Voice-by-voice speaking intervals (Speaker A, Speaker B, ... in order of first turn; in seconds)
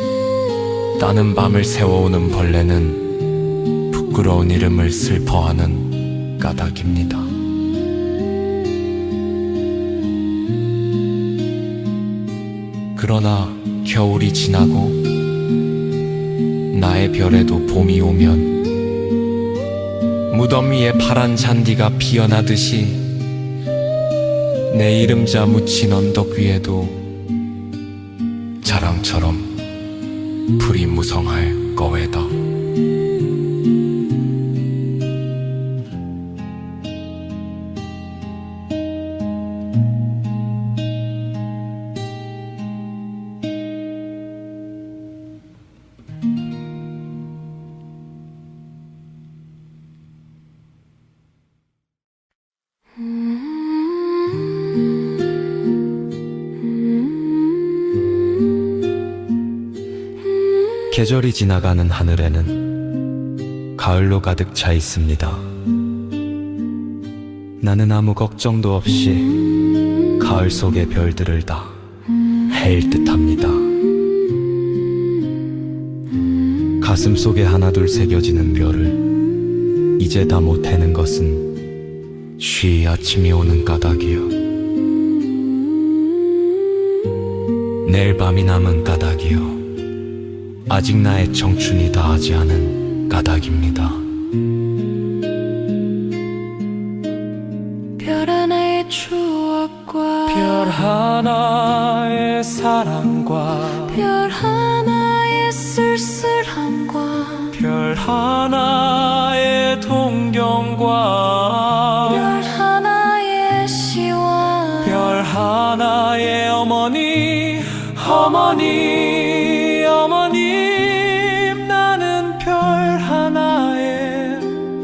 Speaker A: 1.0-3.0, 3.9-7.3, 12.9-15.1, 16.7-18.6, 20.3-23.1, 24.7-27.0, 28.6-29.5, 30.6-32.3, 82.7-83.1, 92.9-93.7, 100.6-103.8, 107.6-112.0, 115.0-124.6
Speaker B: 60.9-62.6, 63.8-65.5, 67.6-69.3, 70.2-71.7, 72.5-73.7, 76.8-79.0, 80.0-81.5, 82.4-84.3, 87.8-89.5, 90.7-94.0
Speaker C: 98.0-100.8, 103.7-107.6, 112.0-115.1